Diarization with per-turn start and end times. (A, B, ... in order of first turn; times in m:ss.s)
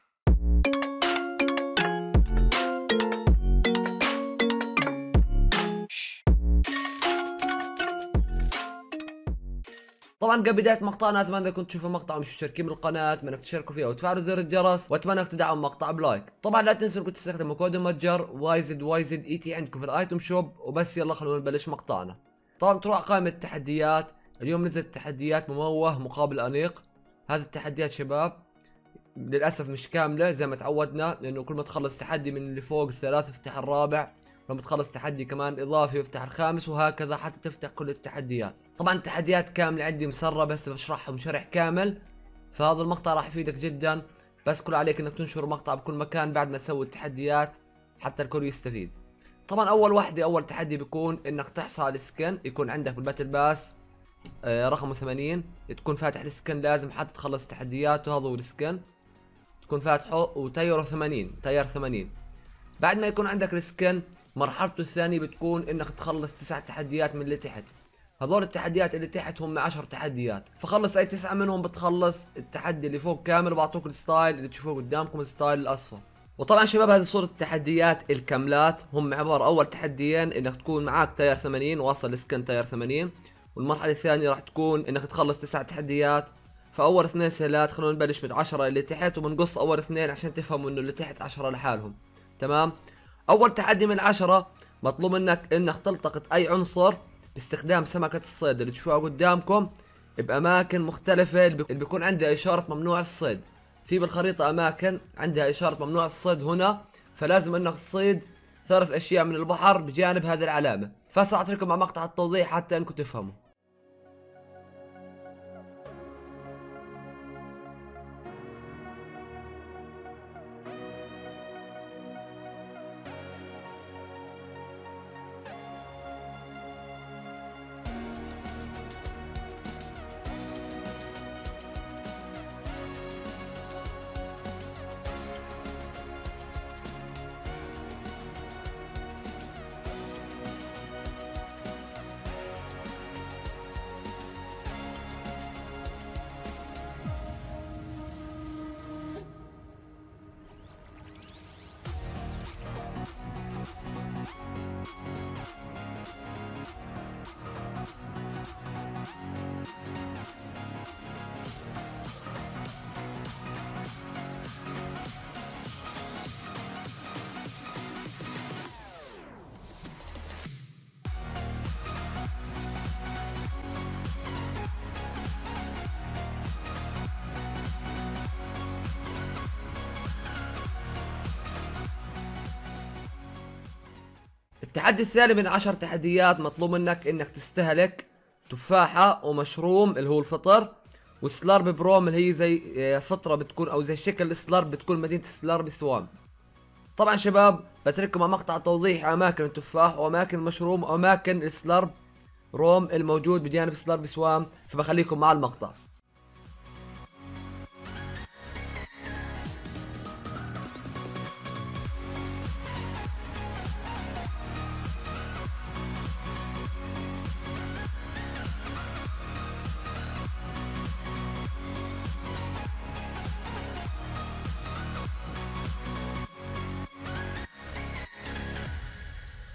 0:10.2-0:28.4 A
0:29.2-0:42.0 A
0:42.5-0:48.9 A
0:49.5-0:53.8 A
0:54.4-0:58.8 A
0:59.6-1:02.1 A
1:02.8-1:32.7 A
1:33.3-1:53.4 A
3:04.6-3:16.1 A
3:17.0-3:21.9 A
3:22.5-3:25.8 A